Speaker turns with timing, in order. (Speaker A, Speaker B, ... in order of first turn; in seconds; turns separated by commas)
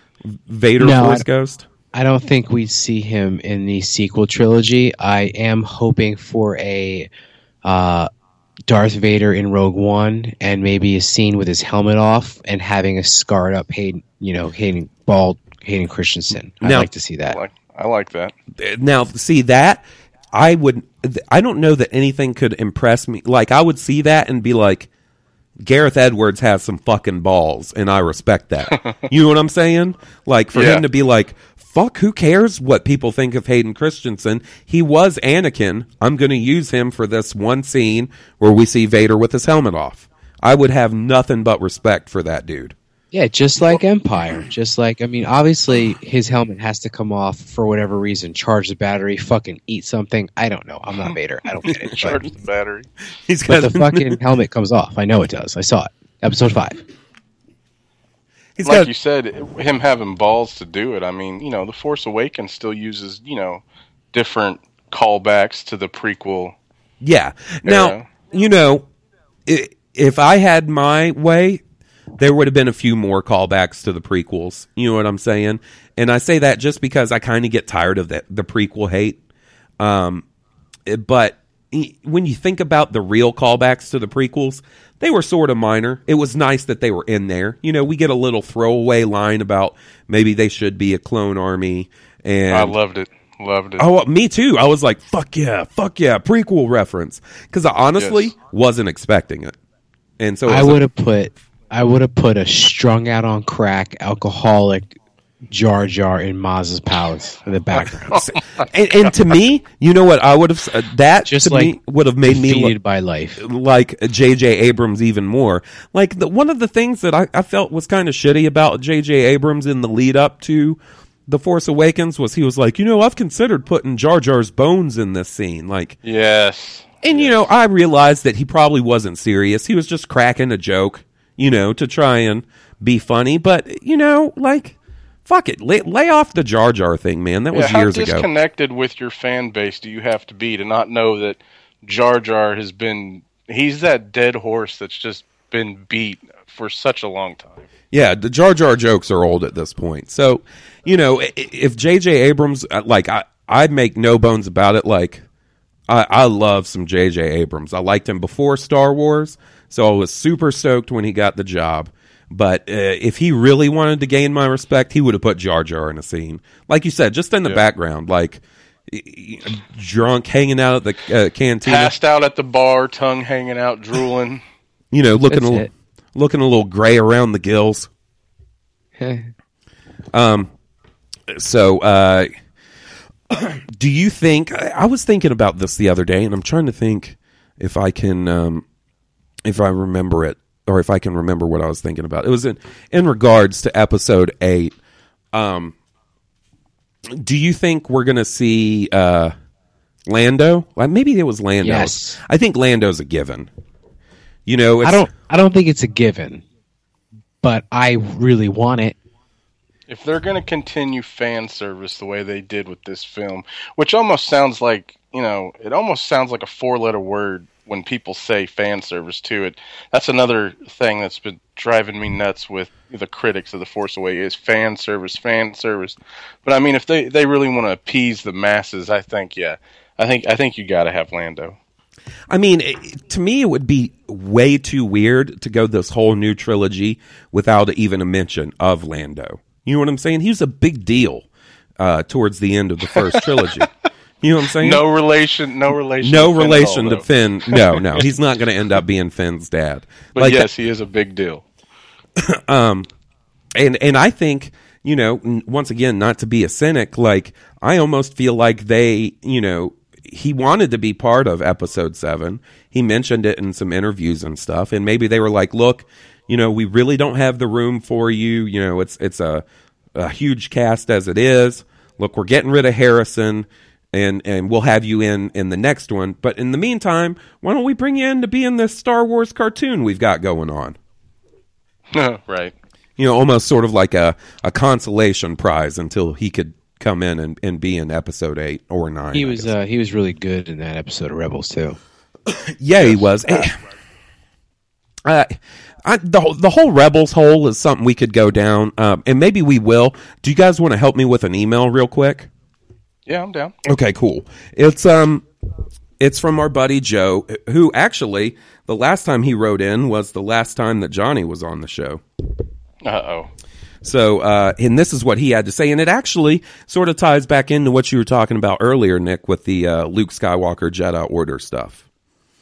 Speaker A: 0.3-1.7, Speaker B: 0.8-1.2, Speaker B: 1.9-7.1, Speaker B: 7.6-8.1, Speaker B: 8.7-17.4, Speaker A: 16.6-16.9, Speaker C: 17.3-18.3, Speaker A: 18.6-24.9, Speaker A: 25.6-42.8, Speaker C: 30.5-30.8, Speaker B: 43.1-52.3, Speaker A: 51.8-52.2, Speaker C: 51.9-52.9, Speaker A: 53.3-54.2, Speaker B: 53.5-56.8, Speaker A: 58.6-58.9, Speaker C: 58.6-66.5, Speaker A: 67.0-68.9, Speaker C: 67.7-68.0, Speaker A: 69.5-71.6, Speaker A: 72.2-79.2, Speaker A: 79.8-80.2, Speaker A: 80.9-92.8, Speaker C: 92.5-93.9, Speaker A: 93.8-99.5, Speaker C: 98.0-98.3, Speaker A: 100.2-100.8, Speaker B: 100.5-108.2, Speaker A: 108.1-112.8, Speaker B: 111.2-111.8, Speaker B: 112.3-113.4, Speaker A: 113.4-126.0, Speaker C: 126.0-127.4, Speaker A: 127.0-134.8, Speaker A: 135.3-138.3, Speaker C: 137.5-147.7, Speaker A: 147.9-155.2, Speaker A: 155.9-171.9, Speaker C: 171.6-174.4, Speaker A: 174.9-177.9, Speaker B: 175.3-175.7, Speaker B: 179.0-179.3, Speaker A: 180.1-180.5, Speaker A: 181.3-182.3, Speaker A: 183.3-188.7, Speaker A: 189.4-194.7, Speaker A: 195.3-195.7, Speaker A: 197.1-199.3, Speaker A: 200.1-203.5, Speaker B: 201.6-202.2, Speaker A: 204.5-205.1, Speaker B: 204.8-206.4, Speaker B: 207.4-209.0, Speaker C: 209.9-231.6, Speaker A: 232.3-241.3, Speaker A: 241.8-243.7, Speaker C: 243.0-243.7, Speaker A: 244.2-244.8, Speaker C: 244.6-248.1, Speaker A: 246.0-250.5, Speaker C: 250.2-251.4, Speaker A: 252.2-252.9, Speaker A: 253.6-280.8, Speaker C: 281.9-282.5, Speaker A: 283.0-289.5, Speaker B: 289.1-291.8, Speaker A: 292.3-293.6, Speaker C: 292.8-293.1, Speaker A: 295.1-302.3, Speaker C: 303.1-303.5, Speaker A: 303.6-305.3, Speaker A: 306.0-312.0, Speaker C: 312.8-313.3, Speaker A: 313.8-321.8